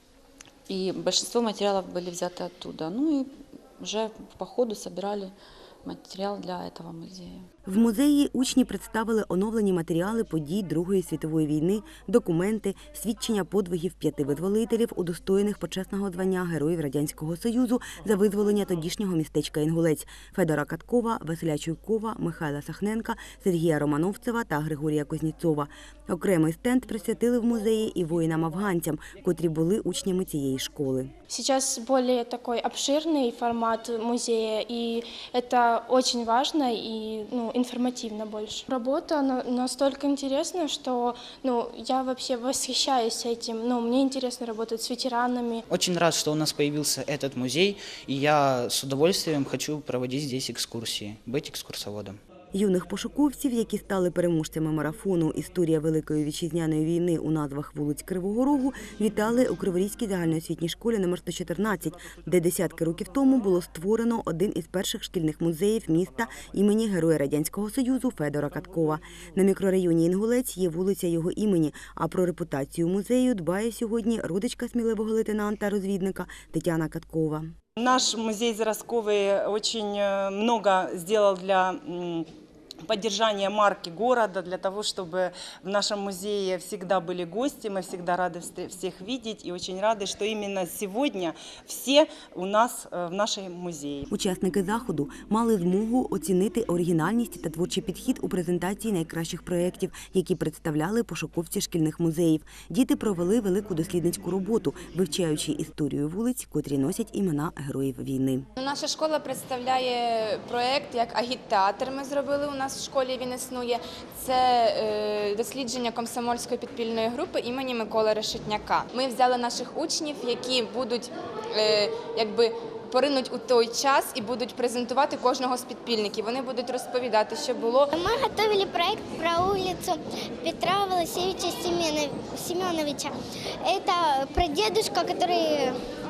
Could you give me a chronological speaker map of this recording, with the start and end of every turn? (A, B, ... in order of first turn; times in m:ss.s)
0:00.7-0:05.3 A
0:05.8-0:07.5 A
0:07.7-0:31.1 B
0:31.3-0:45.6 C
0:45.7-0:52.2 D
0:52.5-1:17.5 B
1:17.8-1:22.3 E
1:22.9-1:34.1 E
1:34.1-1:48.5 B
1:48.6-2:07.9 F
2:07.9-2:15.8 G